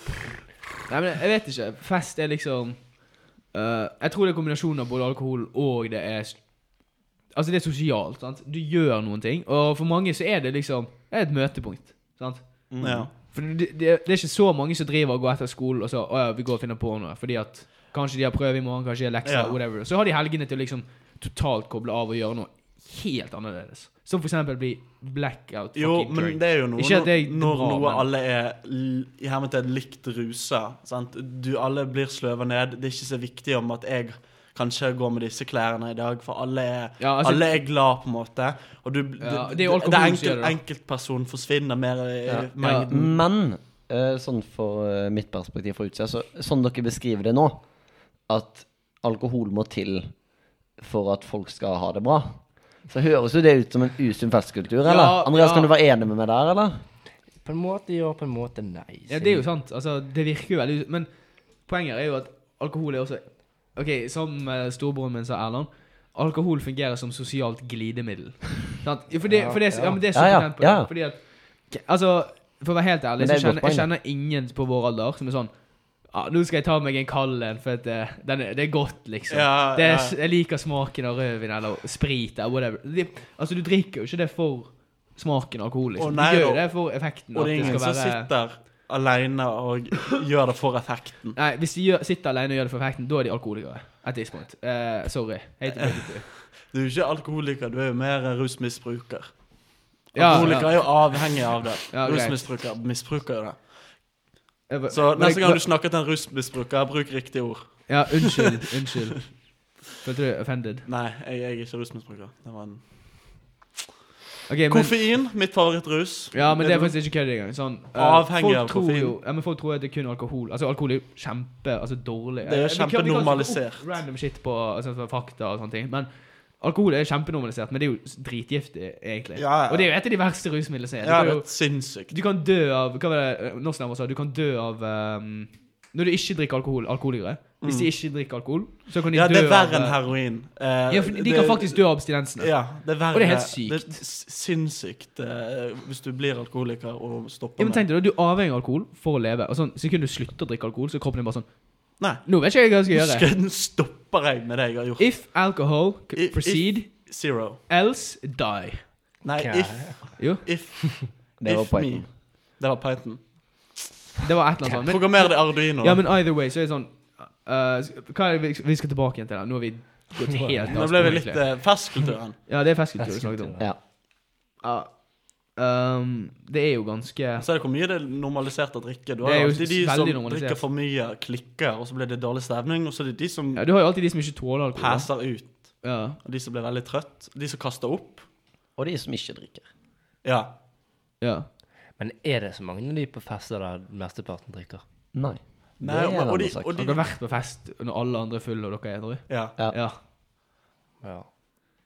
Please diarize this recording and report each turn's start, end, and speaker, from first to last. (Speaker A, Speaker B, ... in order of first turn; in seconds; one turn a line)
Speaker A: 0.9-28.1
Speaker B: 12.7-13.1
Speaker C: 12.8-13.1
Speaker C: 19.2-19.6
Speaker C: 25.8-43.2
Speaker A: 37.0-37.6
Speaker A: 39.2-40.6
Speaker B: 42.3-47.6
Speaker A: 42.6-42.9
Speaker B: 48.2-50.2
Speaker B: 50.8-56.7
Speaker A: 54.8-55.7
Speaker D: 57.4-59.4
Speaker A: 59.1-88.3
Speaker D: 69.2-70.0
Speaker B: 70.1-70.9
Speaker B: 73.2-73.9
Speaker C: 79.3-80.2
Speaker C: 86.0-91.4
Speaker A: 91.3-96.3
Speaker C: 95.8-99.4
Speaker C: 100.1-103.7
Speaker A: 100.1-101.4
Speaker A: 101.9-102.7
Speaker A: 104.7-105.7
Speaker C: 104.9-108.2
Speaker A: 107.9-110.8
Speaker C: 110.8-113.4
Speaker A: 114.5-115.2
Speaker C: 114.7-117.0
Speaker A: 116.3-140.2
Speaker C: 117.9-119.2
Speaker C: 122.5-123.9
Speaker C: 129.3-129.9
Speaker C: 131.0-132.2
Speaker C: 137.6-137.9
Speaker C: 139.1-147.9
Speaker A: 140.9-144.0
Speaker A: 147.6-153.3
Speaker C: 152.0-155.5
Speaker A: 155.0-157.1
Speaker C: 156.1-157.6
Speaker A: 157.7-158.8
Speaker C: 159.2-163.9
Speaker D: 159.3-160.2
Speaker A: 160.2-160.9
Speaker B: 161.4-162.1
Speaker A: 164.2-173.9
Speaker C: 164.8-166.0
Speaker D: 170.2-170.6
Speaker C: 170.7-172.4
Speaker D: 173.0-173.7
Speaker A: 174.6-177.5
Speaker C: 177.4-183.6
Speaker A: 179.2-180.6
Speaker A: 183.5-185.1
Speaker C: 184.7-188.2
Speaker A: 185.8-186.2
Speaker B: 188.8-189.7
Speaker C: 190.2-190.5
Speaker A: 191.2-191.5
Speaker D: 192.0-194.8
Speaker B: 195.1-196.8
Speaker C: 195.8-197.0
Speaker A: 196.8-200.0
Speaker C: 199.3-199.6
Speaker D: 201.0-201.3